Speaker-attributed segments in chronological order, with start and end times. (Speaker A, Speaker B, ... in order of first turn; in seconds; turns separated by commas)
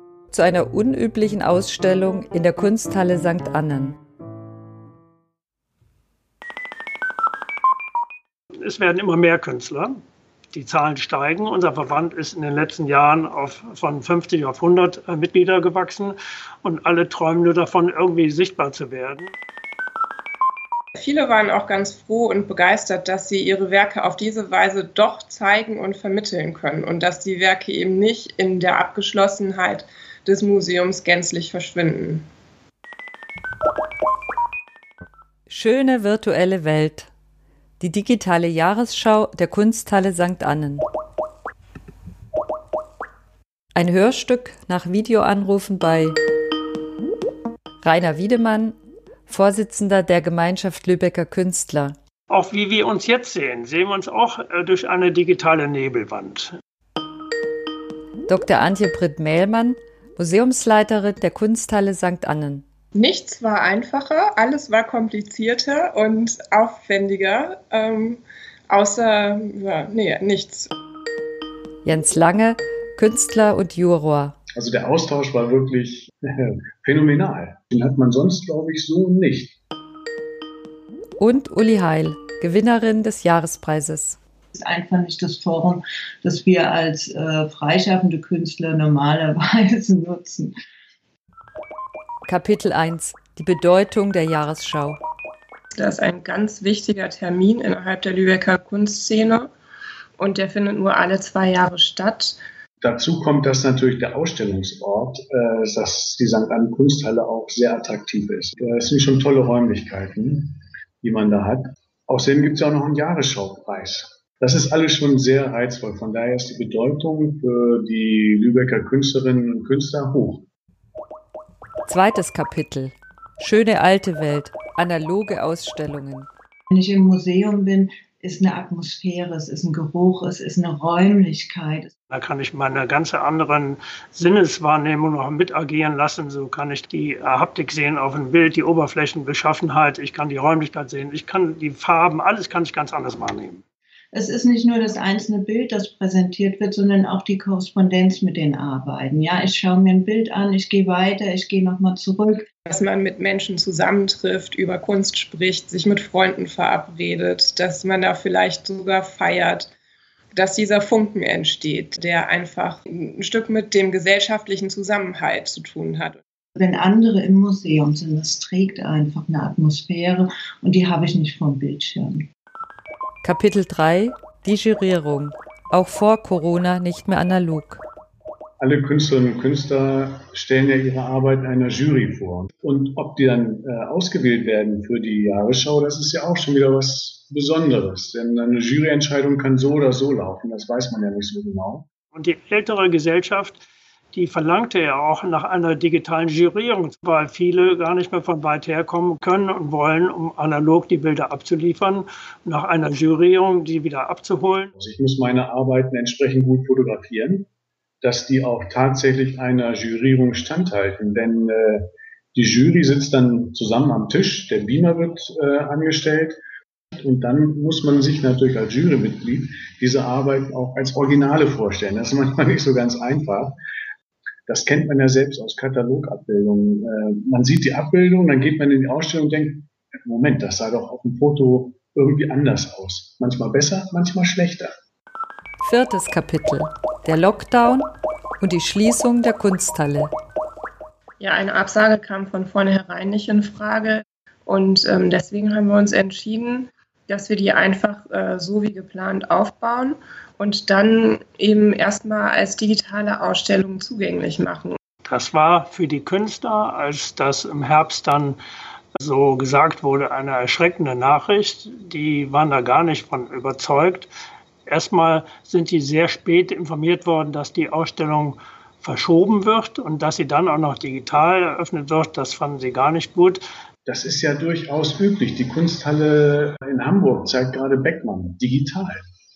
Speaker A: 0.3-4.0, Speaker B: 8.6-10.0, Speaker B: 10.5-19.3, Speaker C: 20.9-32.2, Speaker A: 35.5-37.1, Speaker A: 37.8-40.8, Speaker A: 43.7-46.2, Speaker A: 47.8-48.8, Speaker A: 49.3-52.0, Speaker B: 52.3-56.5, Speaker A: 58.3-62.6, Speaker C: 62.9-70.7, Speaker A: 71.8-74.3, Speaker D: 74.5-79.6, Speaker A: 81.2-84.2, Speaker E: 84.5-90.5, Speaker A: 92.2-95.0, Speaker C: 95.7-99.5, Speaker C: 100.2-102.4, Speaker D: 102.8-120.5, Speaker A: 121.8-126.3, Speaker E: 126.7-131.9, Speaker B: 132.1-143.6, Speaker E: 144.1-152.5, Speaker C: 152.6-159.7, Speaker C: 160.3-166.2, Speaker E: 166.6-172.3, Speaker A: 173.2-177.8, Speaker D: 178.6-191.8, Speaker B: 192.1-193.6, Speaker B: 194.1-204.7, Speaker D: 204.8-207.5, Speaker D: 208.0-216.4, Speaker D: 217.0-223.6, Speaker D: 224.5-234.7, Speaker A: 235.6-240.1, Speaker C: 241.2-254.8, Speaker B: 255.0-258.4, Speaker B: 258.9-264.1, Speaker B: 264.7-273.4, Speaker D: 273.9-279.0